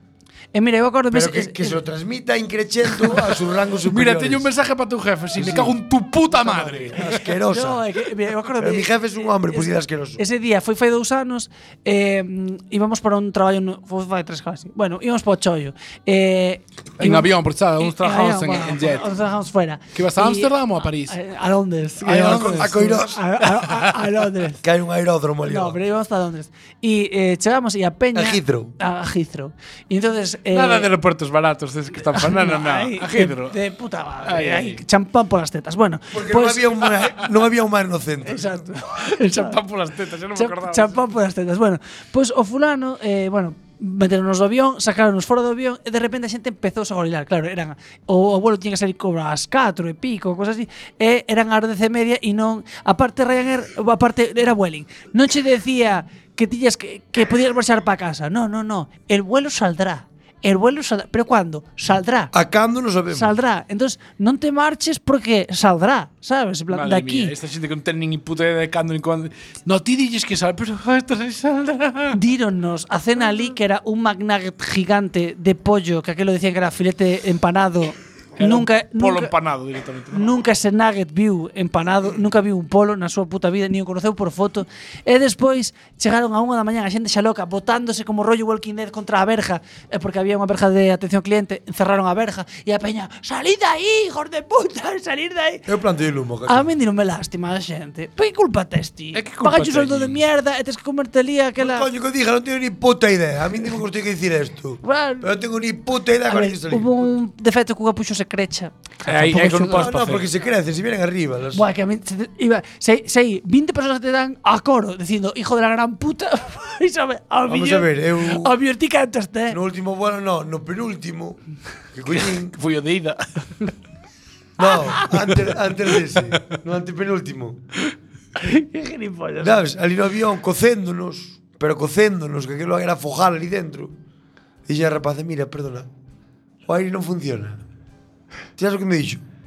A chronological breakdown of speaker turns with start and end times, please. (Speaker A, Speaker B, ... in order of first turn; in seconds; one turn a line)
Speaker A: 0.5-1.8
Speaker B: 1.1-4.5
Speaker C: 3.8-7.2
Speaker B: 5.3-5.8
Speaker B: 6.3-7.8
Speaker A: 7.4-20.5
Speaker B: 8.6-10.2
Speaker C: 17.0-19.2
Speaker C: 19.9-21.1
Speaker A: 21.1-24.6
Speaker B: 22.0-23.2
Speaker C: 22.2-22.9
Speaker B: 24.6-25.8
Speaker A: 25.4-30.9
Speaker B: 28.1-28.7
Speaker C: 30.5-33.6
Speaker A: 32.1-36.6
Speaker C: 34.2-34.8
Speaker B: 36.1-38.5
Speaker A: 38.2-39.6
Speaker C: 39.0-41.0
Speaker A: 40.3-62.3
Speaker B: 62.3-63.3
Speaker A: 63.1-67.3
Speaker C: 66.7-72.2
Speaker A: 72.1-79.3
Speaker C: 78.4-80.4
Speaker A: 80.1-95.7
Speaker B: 95.7-96.7
Speaker A: 96.5-101.9
Speaker C: 99.1-100.2
Speaker B: 101.6-107.0
Speaker A: 104.8-105.3
Speaker A: 106.3-109.9
Speaker C: 109.1-110.3
Speaker B: 109.7-111.6
Speaker A: 111.5-119.6
Speaker B: 117.5-118.5
Speaker B: 119.5-121.4
Speaker B: 121.9-122.5
Speaker C: 122.1-123.7
Speaker B: 124.6-127.6
Speaker A: 128.4-129.6
Speaker B: 129.4-133.9
Speaker B: 134.7-135.9
Speaker B: 136.7-137.6
Speaker B: 138.6-139.2